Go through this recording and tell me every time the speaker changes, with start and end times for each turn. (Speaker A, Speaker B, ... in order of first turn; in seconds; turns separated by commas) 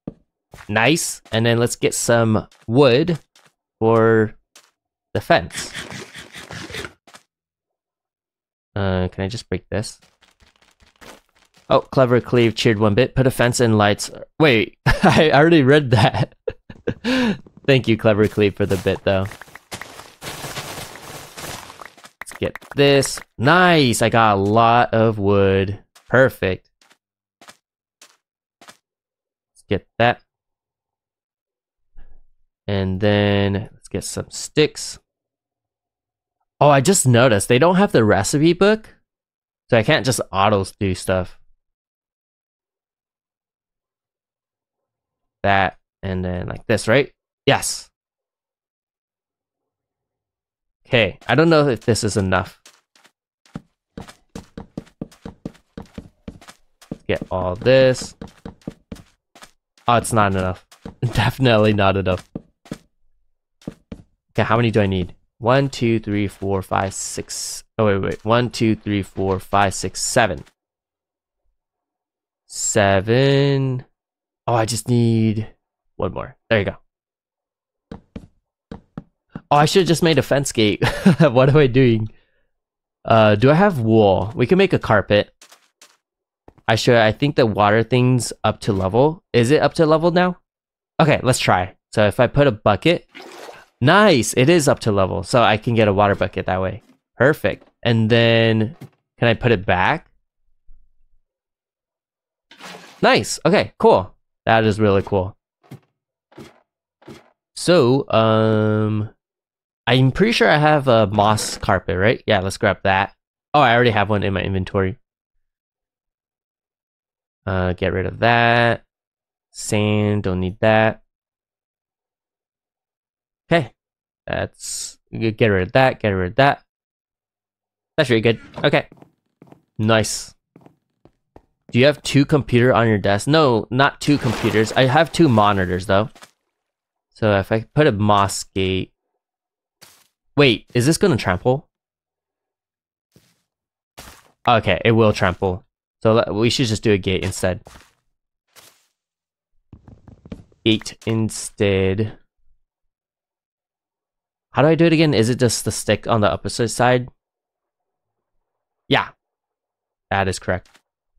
Speaker A: 0.7-3.2, Speaker A: 3.8-4.4, Speaker A: 5.1-5.8, Speaker A: 8.7-10.0, Speaker A: 11.7-16.3, Speaker A: 16.9-19.3, Speaker A: 22.2-26.7, Speaker A: 29.5-30.2, Speaker A: 32.7-35.0, Speaker A: 36.6-39.0, Speaker A: 39.7-41.4, Speaker A: 45.4-47.9, Speaker A: 50.8-52.6, Speaker A: 57.0-58.1, Speaker A: 59.9-62.2, Speaker A: 64.3-70.5, Speaker A: 72.5-73.8, Speaker A: 74.5-76.8, Speaker A: 79.5-82.1, Speaker A: 83.0-85.3, Speaker A: 86.7-90.4, Speaker A: 91.0-93.1, Speaker A: 93.8-100.1, Speaker A: 103.0-105.3, Speaker A: 107.5-109.1, Speaker A: 109.9-115.0, Speaker A: 117.5-118.8, Speaker A: 119.5-121.0, Speaker A: 123.5-123.7, Speaker A: 124.3-126.6, Speaker A: 128.0-128.9, Speaker A: 129.8-130.3, Speaker A: 131.7-136.1, Speaker A: 137.1-138.9, Speaker A: 140.3-141.7, Speaker A: 144.4-147.6, Speaker A: 150.6-152.2, Speaker A: 154.5-157.1, Speaker A: 160.1-160.7